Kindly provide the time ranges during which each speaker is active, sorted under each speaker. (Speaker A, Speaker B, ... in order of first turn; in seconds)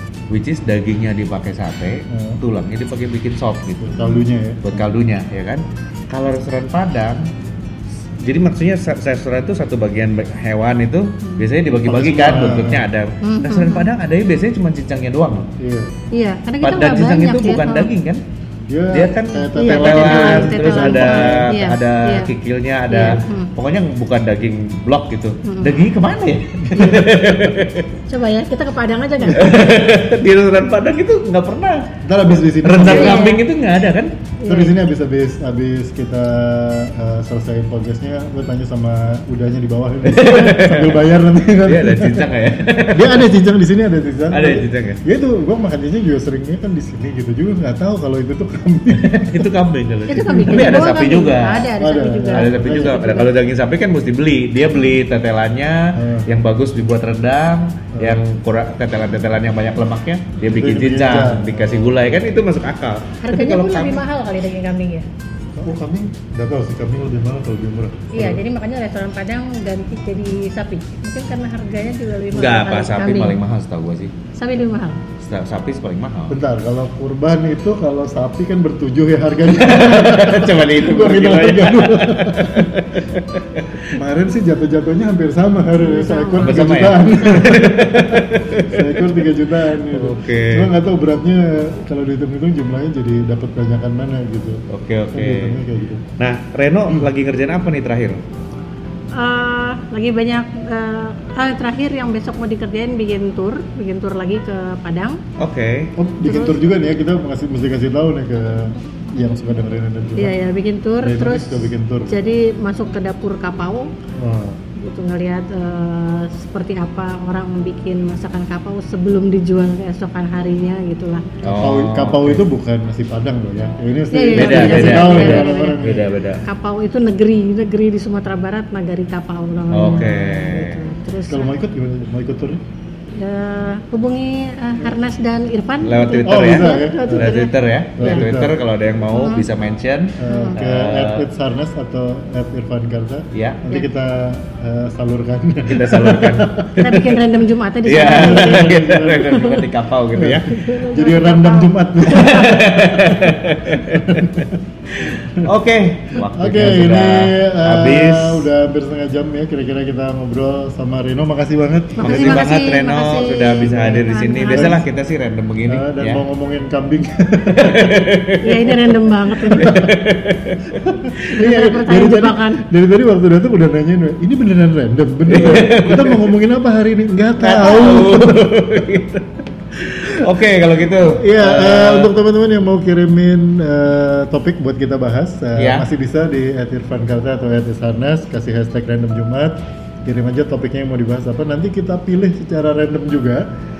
Speaker A: 0.3-4.0, 4.6-7.3, 8.2-15.5, 16.6-18.2, 18.9-27.9, 29.3-34.1, 40.0-41.0, 41.6-43.3, 44.3-45.0, 49.0-51.7, 52.3-64.0, 72.3-74.1, 75.2-76.4, 79.6-83.9, 86.4-89.2, 89.9-90.7, 94.7-95.6, 96.2-98.2, 105.4-105.9, 121.4-122.5, 124.3-126.4, 129.7-130.8, 135.8-141.2, 143.3-143.6, 145.7-146.8, 147.8-150.6, 152.1-158.5, 162.0-166.2, 167.5-168.7, 169.6-171.3, 175.3-176.3, 177.4-182.1, 185.6-185.9
Speaker B: 2.1-2.4, 3.9-4.9, 11.8-12.8, 15.6-15.9, 18.7-21.5, 26.7-27.3, 32.0-33.3, 34.5-42.3, 42.9-49.5, 50.2-50.9, 51.8-53.1, 55.9-56.3, 57.9-58.2, 60.5-62.0, 65.5-68.4, 76.3-82.7, 83.9-96.1, 106.0-110.3, 111.0-112.1, 114.2-114.6, 121.5-126.1, 131.3-132.6, 136.2-137.4, 137.9-138.5, 140.2-146.8, 148.1-149.4, 150.1-154.6, 156.3-162.5, 164.5-164.9, 165.7-168.1, 169.4-170.0, 170.8-178.8, 181.0-193.4
Speaker C: 13.2-13.9, 16.1-17.9, 19.6-22.3, 22.9-23.5, 25.4-25.8, 26.7-27.0, 28.1-29.7, 32.8-33.4, 34.4-34.7, 50.1-53.3, 63.2-65.0, 68.1-73.4, 74.3-75.0, 85.8-86.6, 99.1-105.2, 106.2-106.6, 110.2-113.9, 114.8-121.2, 124.1-131.5, 133.2-138.1, 139.1-139.5, 140.3-140.6, 146.8-149.6, 150.5-152.6, 161.9-164.8, 168.4-169.7, 171.3-172.6